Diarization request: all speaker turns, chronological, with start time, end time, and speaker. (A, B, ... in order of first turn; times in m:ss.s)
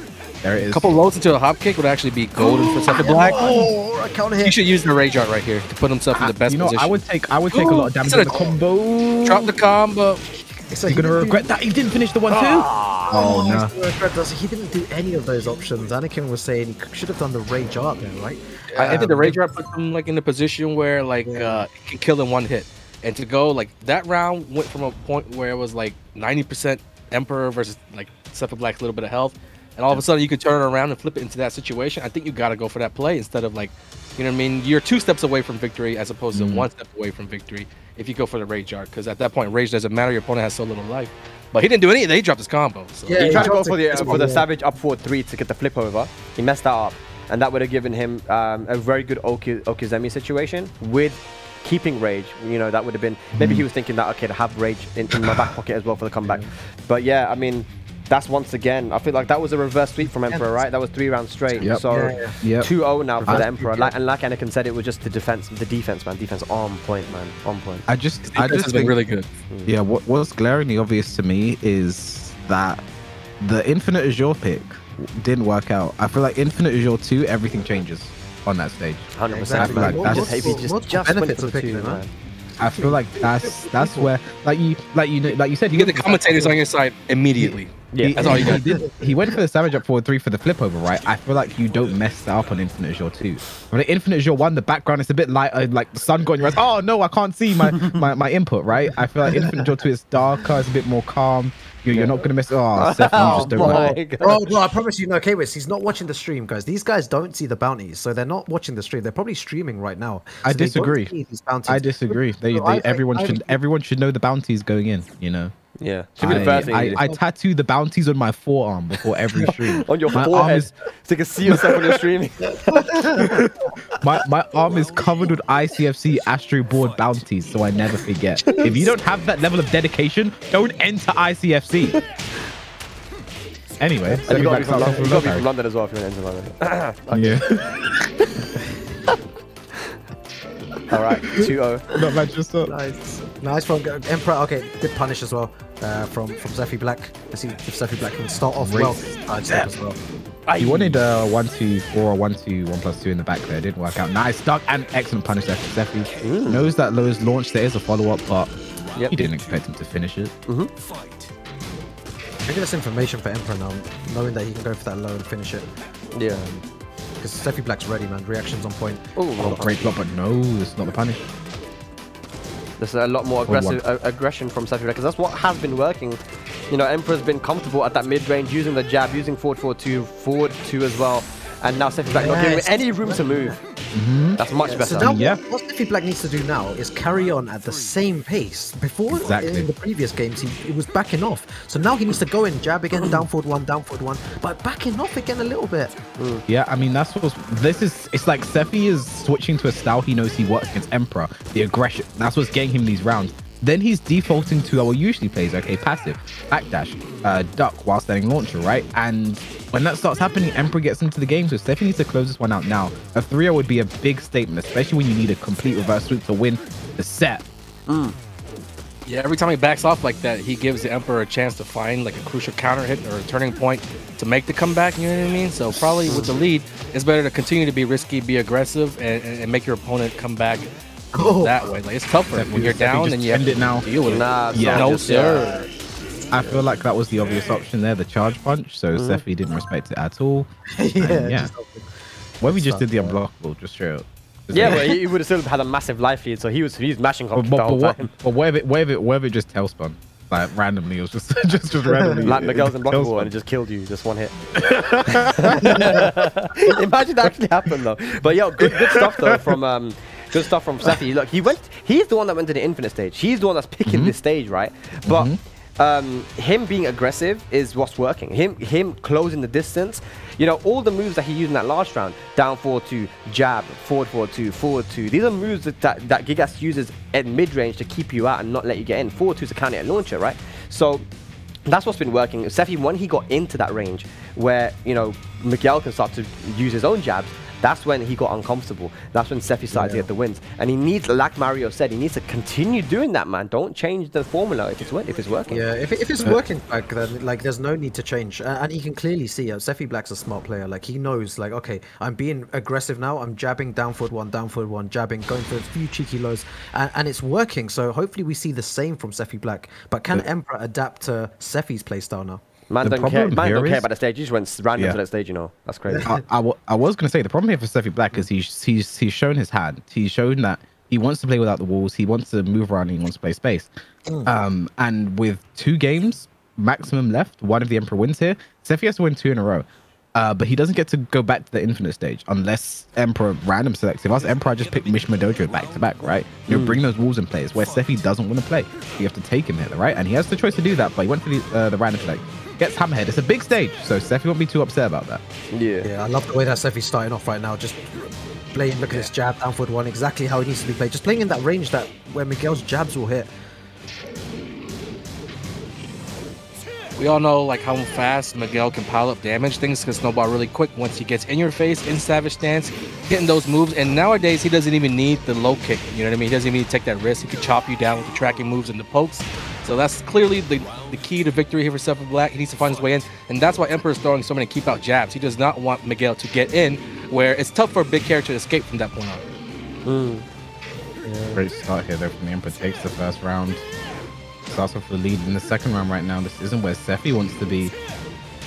0:00.4-0:00.9 A
0:00.6-0:03.7 B
0:02.4-0:04.6 C
0:02.9-0:03.7 A
0:04.4-0:08.5 B
0:06.2-0:09.5 A
0:09.3-0:10.3 B
0:10.7-0:11.5 C
0:10.9-0:13.7 A
0:12.3-0:13.2 D
0:13.1-0:19.4 C
0:18.7-0:44.1 B
0:18.9-0:19.3 A
0:21.2-0:21.7 C
0:36.3-0:36.7 A
0:43.1-0:44.5 C
0:43.2-1:07.9 D
0:53.3-0:53.7 A
0:56.2-0:56.5 C
1:00.3-1:00.6 C
1:01.6-1:01.8 A
1:01.6-1:02.4 C
1:02.4-1:03.5 A
1:03.2-1:04.0 C
1:07.9-1:09.0 A
1:08.2-1:09.3 B
1:09.7-1:12.8 A
1:13.4-1:20.6 A
1:19.2-1:22.1 D
1:19.3-1:22.0 C
1:22.6-1:26.5 A
1:22.6-1:24.1 C
1:25.7-1:28.6 B
1:27.9-1:28.4 D
1:28.0-1:44.0 A
1:28.3-1:29.4 C
1:39.3-1:39.7 C
1:41.9-1:44.5 D
1:43.2-1:53.5 C
1:50.4-1:51.1 A
1:51.6-1:55.5 A
1:55.8-1:57.0 D
1:56.2-2:00.7 A
1:56.2-1:57.2 C
1:59.8-2:03.4 D
2:02.9-2:03.3 C
2:04.0-2:12.0 A
2:08.5-2:08.9 D
2:13.8-2:15.5 A
2:14.2-2:17.4 D
2:14.4-2:15.0 C
2:17.1-2:18.0 A
2:20.9-2:21.8 D
2:21.9-2:22.7 A
2:22.6-2:30.0 C
2:28.6-2:29.7 A
2:30.5-2:31.0 D
2:30.6-2:38.5 A
2:36.2-2:36.7 D
2:39.0-2:39.3 D
2:39.1-2:40.3 A
2:42.5-2:45.7 C
2:46.1-2:46.5 D
2:46.3-2:46.6 C
2:47.2-2:49.9 C
2:49.2-2:49.7 D
2:49.4-2:51.3 A
2:52.8-3:03.6 D
2:53.4-2:53.8 A
3:02.1-3:03.6 C
3:03.9-3:04.4 A
3:04.4-3:05.1 D
3:04.6-3:16.0 C
3:04.9-3:05.4 A
3:09.1-3:09.7 A
3:16.2-3:16.4 D
3:16.5-3:37.4 A
3:37.9-3:38.2 D
3:39.1-3:55.7 B
3:46.1-3:46.4 D
3:51.1-3:51.8 C
3:52.3-3:53.9 A
3:54.0-3:55.5 D
3:54.5-3:54.9 A
3:56.3-4:01.5 A
3:56.4-3:56.7 D
3:58.9-3:59.2 D
4:00.8-4:01.9 C
4:02.4-4:03.2 C
4:02.4-4:04.9 A
4:04.5-4:08.1 D
4:07.3-4:13.3 A
4:12.0-4:12.3 C
4:12.2-4:14.4 D
4:14.6-4:16.1 A
4:15.1-4:41.1 D
4:23.8-4:24.2 A
4:25.0-4:25.4 A
4:41.7-4:55.6 D
4:49.7-4:50.1 C
4:55.5-5:12.4 C
5:12.7-5:16.0 D
5:12.8-5:13.9 A
5:15.9-5:16.2 C
5:16.0-5:23.7 A
5:24.2-5:45.2 A
5:36.5-5:36.8 D
5:45.5-5:45.9 D
5:45.8-5:53.3 C
5:57.0-6:19.2 B
6:19.8-6:20.2 D
6:21.0-6:21.4 C
6:21.4-6:23.6 A
6:24.5-6:27.7 A